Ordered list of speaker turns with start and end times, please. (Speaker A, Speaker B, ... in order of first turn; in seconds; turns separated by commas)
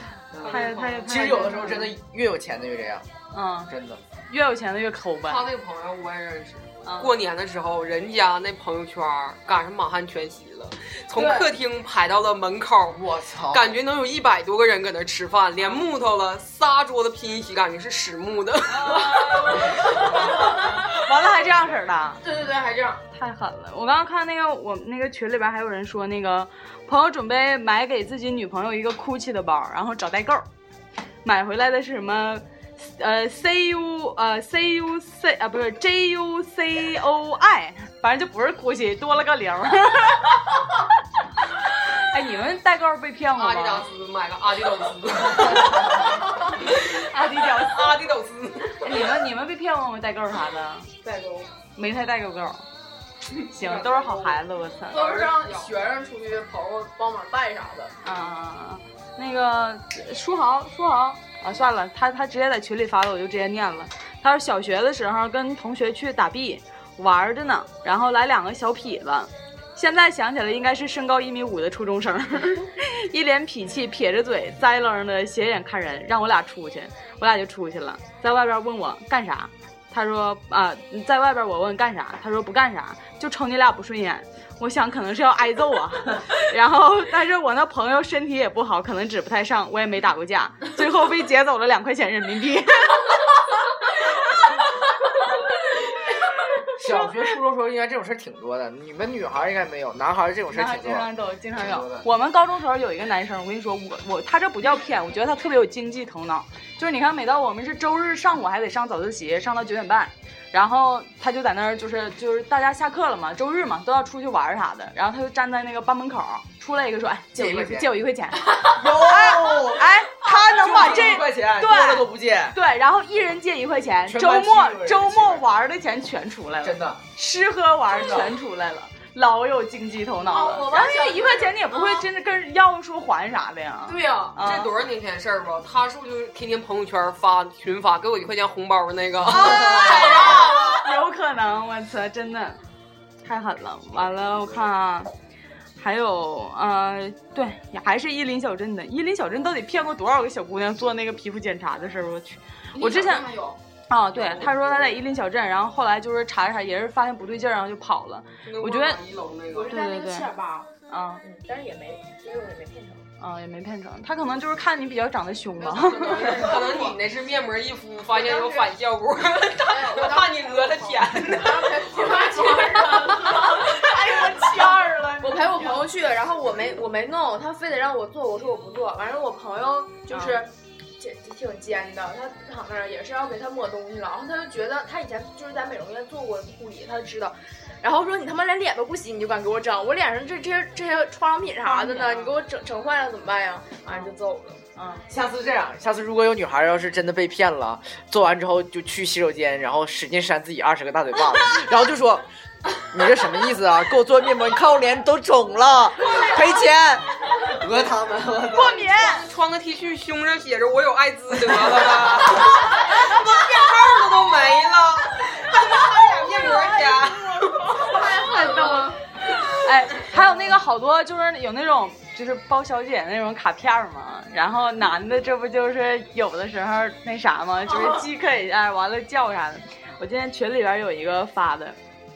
Speaker A: 0.3-3.1, Speaker B: 0.4-1.2, Speaker C: 0.5-1.9, Speaker C: 3.3-3.7, Speaker A: 3.7-4.0, Speaker C: 4.3-5.4, Speaker B: 5.3-19.6, Speaker C: 6.8-7.1, Speaker A: 12.9-13.7, Speaker C: 18.7-22.2, Speaker D: 20.4-20.8, Speaker D: 22.2-23.0, Speaker C: 23.1-30.4, Speaker C: 31.2-40.4, Speaker C: 42.0-43.9, Speaker B: 43.4-46.0, Speaker C: 47.0-48.0, Speaker B: 47.5-48.8, Speaker C: 48.8-50.9, Speaker D: 51.0-51.5, Speaker C: 51.8-52.6, Speaker C: 53.5-55.0, Speaker B: 53.6-54.3, Speaker B: 54.9-55.7, Speaker D: 54.9-57.9, Speaker C: 58.0-93.3, Speaker A: 96.7-102.0, Speaker C: 100.5-134.7, Speaker A: 117.3-117.9, Speaker A: 118.5-122.6, Speaker A: 124.1-125.5, Speaker A: 126.6-127.0, Speaker A: 127.9-128.3, Speaker E: 130.3-131.4, Speaker D: 130.4-130.9, Speaker D: 134.0-134.3, Speaker B: 134.3-140.6, Speaker D: 139.5-140.8, Speaker C: 139.6-142.6, Speaker C: 143.2-145.1, Speaker C: 145.8-153.2, Speaker D: 152.7-153.6, Speaker C: 153.9-159.0, Speaker B: 154.1-154.8, Speaker B: 158.4-159.7, Speaker E: 159.5-160.7, Speaker C: 159.7-160.3, Speaker C: 160.9-161.2, Speaker E: 161.2-163.1, Speaker C: 163.2-166.3, Speaker B: 165.6-171.9, Speaker E: 166.3-166.8, Speaker E: 168.1-168.7, Speaker E: 169.6-194.6, Speaker D: 172.0-174.8, Speaker C: 180.1-180.4, Speaker C: 191.6-192.3, Speaker C: 193.9-194.1, Speaker C: 194.8-195.0, Speaker A: 195.1-202.3, Speaker A: 202.9-208.8, Speaker C: 206.1-206.4, Speaker C: 208.5-209.2, Speaker B: 208.9-217.6, Speaker C: 217.8-218.9, Speaker E: 218.3-218.7, Speaker C: 219.6-231.8